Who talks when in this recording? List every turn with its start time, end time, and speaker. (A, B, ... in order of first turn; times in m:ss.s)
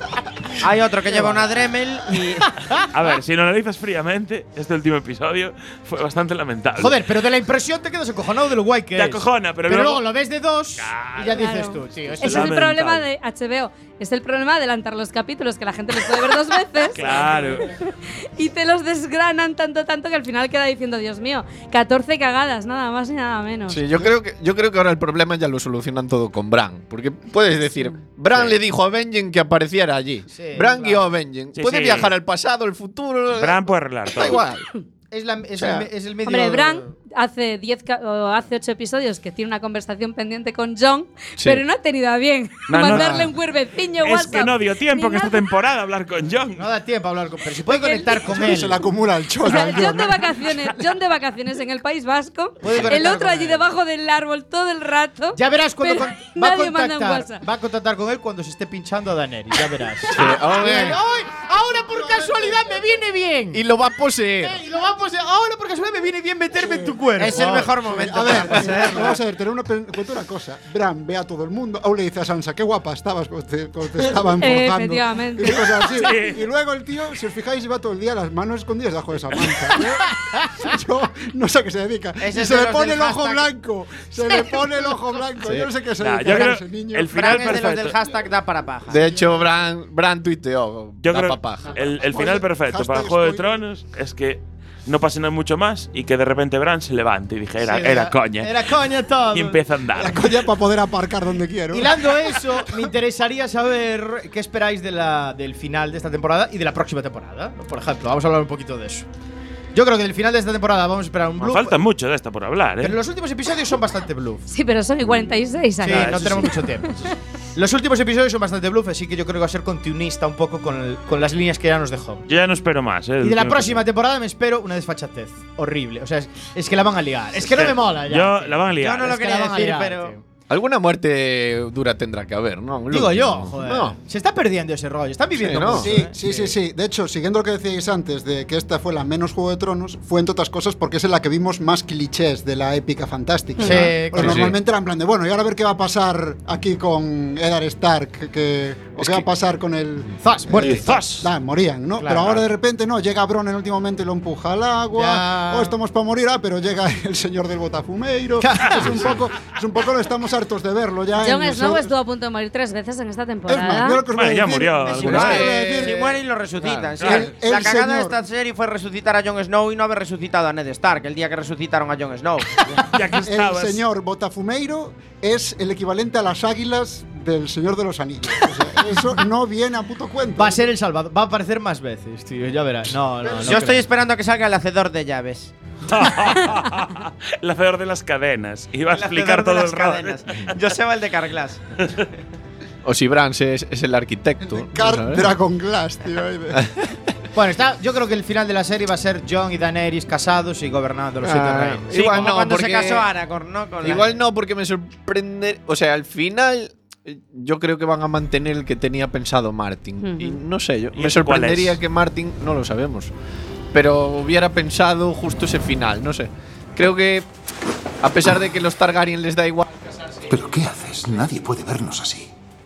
0:00.6-0:02.5 A
0:01.1-0:02.8 B
0:02.9-0:07.0 C
0:06.8-0:12.6 B
0:08.9-0:10.0 C
0:10.8-0:11.4 C
0:11.3-0:23.8 D
0:12.0-0:13.0 C
0:16.9-0:17.7 C
0:17.0-0:17.4 B
0:23.7-0:34.6 E
0:30.3-0:31.1 B
0:31.5-0:32.1 C
0:33.3-0:34.4 C
0:35.1-0:36.9 B
0:35.6-0:35.9 E
0:36.2-0:45.4 D
0:41.4-0:41.6 E
0:42.7-0:43.2 C
0:42.8-0:43.3 E
0:44.0-0:46.7 C
0:46.6-0:48.8 B
0:47.7-0:48.2 D
0:48.3-0:50.7 F
0:49.4-0:57.4 D
0:52.6-0:53.7 B
0:55.3-1:03.6 B
1:00.1-1:01.0 E
1:01.8-1:02.7 F
1:03.5-1:04.6 E
1:04.4-1:09.2 B
1:06.6-1:06.9 F
1:07.2-1:09.2 A
1:07.9-1:27.6 F
1:14.4-1:16.0 D
1:15.9-1:16.4 C
1:22.2-1:23.5 A
1:24.3-1:25.0 B
1:25.4-1:25.7 E
1:26.0-1:28.0 C
1:27.1-1:29.1 A
1:28.9-1:32.0 E
1:29.1-1:29.4 F
1:31.0-1:38.7 C
1:32.0-1:33.6 F
1:37.6-1:39.6 B
1:39.3-1:40.3 C
1:40.0-1:42.2 F
1:41.7-1:49.0 B
1:49.7-1:51.8 B
1:51.4-1:53.0 C
1:52.8-1:54.4 B
1:54.5-1:56.5 D
1:55.8-1:57.0 B
1:55.9-1:56.2 C
1:57.5-2:02.2 B
2:02.3-2:03.8 C
2:03.2-2:10.2 B
2:07.4-2:09.2 C
2:08.8-2:10.1 A
2:10.5-2:14.0 E
2:12.9-2:16.5 B
2:15.3-2:16.0 E
2:15.6-2:41.9 F
2:23.6-2:24.5 B
2:23.6-2:24.6 E
2:29.0-2:29.3 E
2:30.2-2:31.2 B
2:30.6-2:31.3 C
2:32.0-2:32.4 B
2:34.9-2:35.7 B
2:38.4-2:39.2 B
2:41.2-2:44.0 D
2:43.5-2:46.2 F
2:44.1-2:45.4 C
2:44.8-2:45.9 B
2:45.0-2:45.7 E
2:45.0-2:52.5 A
2:47.0-2:47.3 C
2:47.0-2:48.2 F
2:52.9-2:53.8 C
2:53.2-3:00.6 F
3:00.4-3:03.8 B
3:03.4-3:05.5 A
3:05.8-3:10.6 C
3:08.9-3:11.6 A
3:12.8-3:15.4 E
3:14.4-3:16.6 F
3:16.5-3:16.9 E
3:17.3-3:22.3 B
3:21.2-3:23.1 E
3:21.9-3:24.2 A
3:23.8-3:33.1 E
3:30.0-3:30.4 D
3:30.9-3:31.8 C
3:33.7-3:37.3 E
3:38.0-3:40.3 E
3:40.3-3:42.3 G